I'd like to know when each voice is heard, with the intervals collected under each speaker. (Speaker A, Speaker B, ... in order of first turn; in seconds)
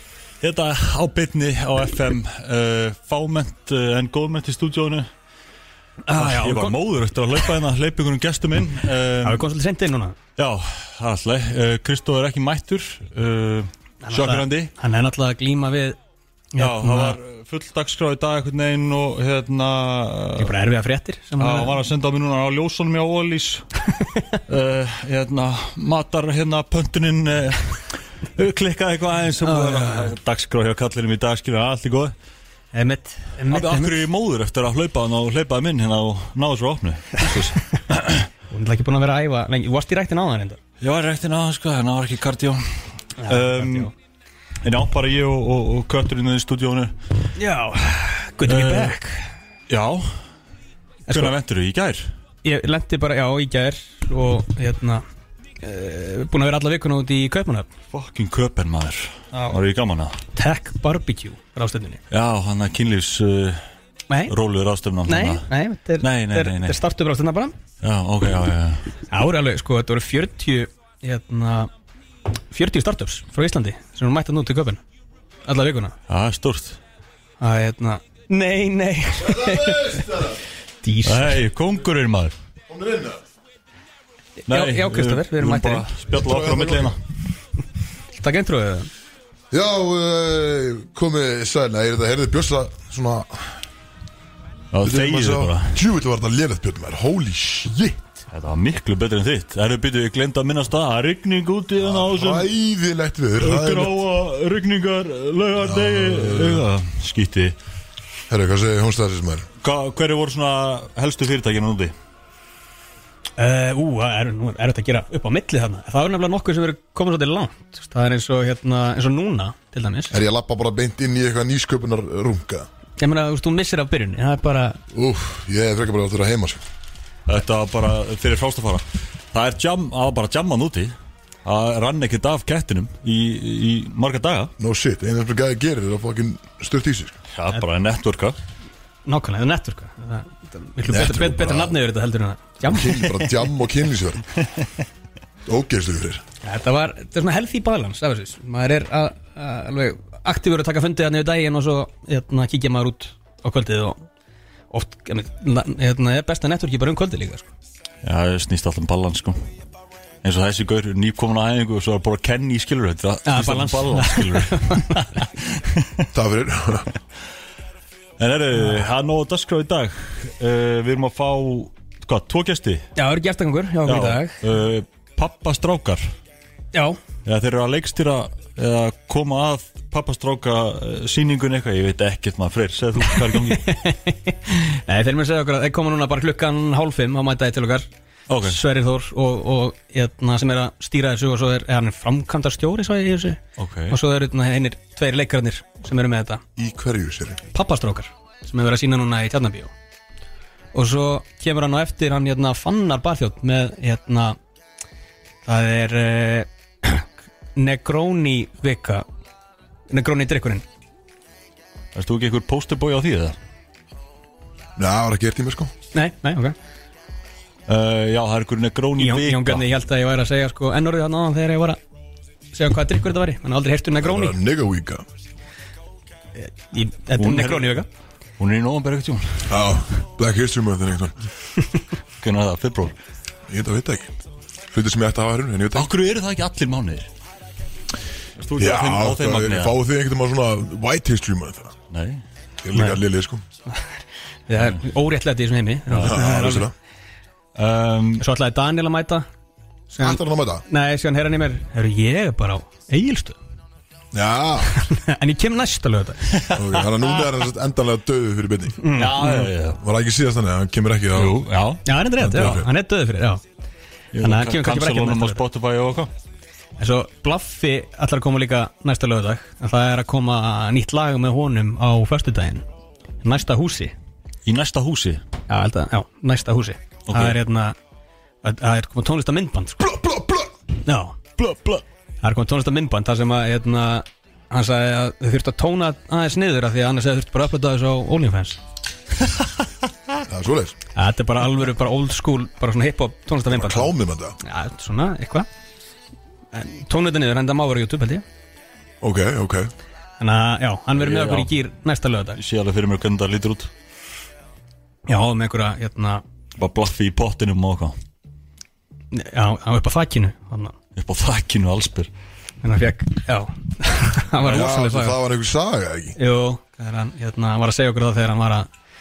Speaker A: 0.4-5.1, 6.1-9.4, 10.3-14.7, 16.6-20.5, 21.4-23.7, 24.5-32.1, 33.5-38.3, 40.8-43.9, 44.6-46.9, 48.5-49.0, 49.7-50.1, 51.1-52.1, 57.9-60.2, 62.1-63.6, 64.3-65.5, 66.0-66.8, 67.8-68.8, 76.1-76.8, 81.0-82.3, 84.5-87.0, 94.7-95.8, 98.3-102.5, 103.4-107.5, 109.6-111.9, 127.3-134.5, 137.3-138.4, 158.0-159.5, 160.2-166.0, 168.2-172.9, 173.8-176.1, 177.2-183.7, 188.3-188.6, 193.6-193.9, 211.9-213.3, 217.7-219.7, 227.2-227.8, 228.4-229.5, 232.2-233.0, 235.7-237.1, 238.4-239.8, 241.9-242.2, 247.6-248.2, 256.3-256.9, 258.9-259.8, 261.1-261.8, 264.1-266.1, 274.4-275.2, 277.1-277.4, 301.0-301.5, 302.4-303.7, 306.6-307.9, 310.9-312.1
Speaker B: 6.0-6.7, 9.2-10.2, 14.0-16.0, 16.5-17.2, 20.4-21.8, 29.4-30.1, 32.7-34.0, 38.5-40.6, 43.2-43.9, 47.4-49.3, 51.1-51.3, 52.4-55.0, 55.6-57.7, 60.3-62.0, 65.1-67.5, 69.1-71.7, 72.5-74.8, 75.5-76.0, 77.4-80.2, 80.8-81.4, 84.5-85.9, 88.2-88.9, 113.4-120.2, 123.0-124.8, 139.1-143.2, 146.4-154.1, 154.7-157.5, 163.2-165.1, 172.9-174.3, 176.7-177.0, 183.1-187.9, 188.4-196.4, 197.5-199.7, 200.7-204.4, 205.4-209.1, 209.9-210.6, 215.9-216.6, 219.0-221.8, 222.5-224.3, 226.4-227.9, 242.7-243.0, 244.5-246.7, 248.2-249.2, 249.9-253.4, 254.7-256.2, 258.8-259.5, 261.8-263.4, 264.2-265.4, 266.8-272.6, 273.2-273.9, 275.5-277.8, 278.4-279.8, 280.8-288.6, 290.9-295.5, 296.5-298.2, 300.2-302.4, 305.1-306.2, 309.1-310.7, 312.6-315.2, 316.1-318.7
Speaker C: 79.1-80.4, 82.7-83.2, 86.1-87.0, 89.5-93.6, 94.8-98.2, 101.8-103.9, 105.6-106.7, 108.3-109.5, 120.1-122.7, 124.9-126.6, 134.6-137.2, 140.9-141.8, 142.6-144.3, 145.4-146.2, 166.1-166.9, 196.6-197.4, 214.8-215.7, 224.0-225.0, 229.5-231.1, 233.5-234.1, 234.7-235.9, 238.6-241.8, 242.6-243.4, 246.0-246.7, 250.0-250.6, 254.1-254.7, 256.5-258.9, 259.8-261.4, 262.2-262.7, 279.8-280.5, 290.3-290.8, 293.5-294.3, 299.0-299.7, 314.4-316.2